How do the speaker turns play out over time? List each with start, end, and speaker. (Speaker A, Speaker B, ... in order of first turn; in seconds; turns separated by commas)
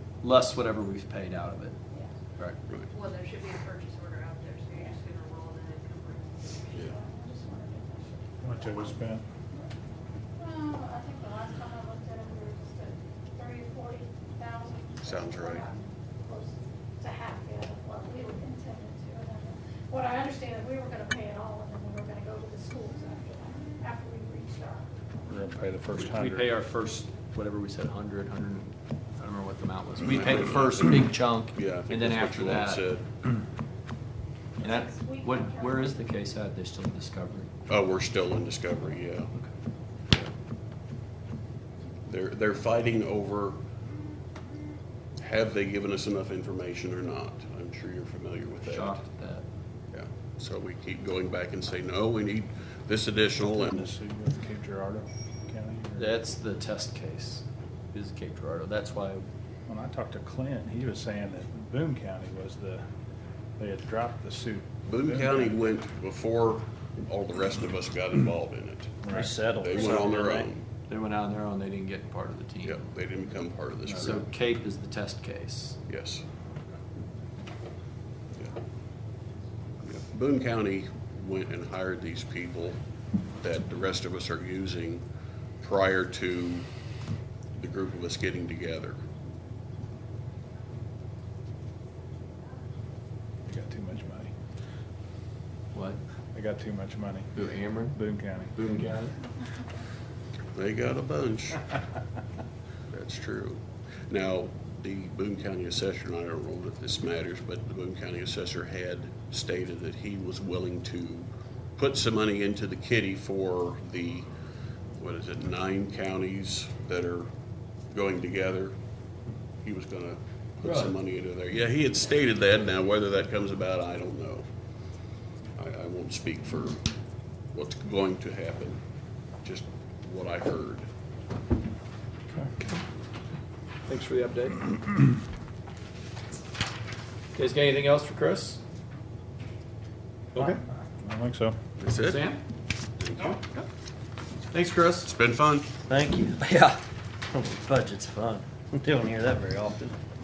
Speaker A: 0.2-1.8, Speaker B: 2.9-6.9, Speaker C: 6.7-9.0, Speaker D: 8.4-9.2, Speaker C: 10.4-24.9, Speaker E: 15.0-15.7, Speaker D: 25.2-26.5, Speaker A: 25.9-32.9, Speaker E: 30.0-33.1, Speaker C: 34.6-36.0, Speaker A: 34.6-37.5, Speaker E: 37.7-39.3, Speaker E: 42.0-43.6, Speaker E: 45.2-49.0, Speaker A: 48.6-49.5, Speaker E: 49.9-53.9, Speaker D: 53.4-56.2, Speaker A: 56.0-59.2, Speaker D: 59.7-62.9, Speaker D: 63.6-65.6, Speaker E: 64.9-69.0, Speaker D: 69.0-69.3, Speaker A: 69.1-70.1, Speaker F: 69.5-70.5, Speaker E: 69.6-70.6, Speaker A: 70.9-72.9, Speaker E: 72.6-74.2, Speaker A: 73.9-75.8, Speaker E: 75.9-76.2, Speaker E: 79.8-82.8, Speaker E: 83.4-85.0, Speaker E: 85.6-86.7, Speaker E: 87.6-89.0, Speaker D: 93.4-94.3, Speaker A: 95.7-96.0, Speaker D: 96.3-97.4, Speaker A: 97.3-98.0, Speaker D: 97.9-98.6, Speaker A: 98.6-99.1, Speaker E: 100.5-101.7, Speaker E: 102.9-114.3, Speaker E: 115.0-117.3, Speaker E: 117.9-118.7, Speaker E: 119.6-124.4, Speaker A: 120.6-120.9, Speaker E: 125.6-126.8, Speaker E: 127.5-128.8, Speaker E: 129.4-130.9, Speaker A: 133.9-134.7, Speaker A: 137.3-138.6, Speaker A: 140.3-140.6, Speaker D: 141.0-141.6, Speaker E: 141.8-142.3, Speaker A: 142.1-142.4, Speaker E: 143.0-143.4, Speaker A: 143.3-143.6, Speaker A: 144.5-145.1, Speaker E: 145.0-145.7, Speaker F: 145.9-146.3, Speaker A: 145.9-146.8, Speaker A: 147.3-148.6, Speaker F: 147.8-149.9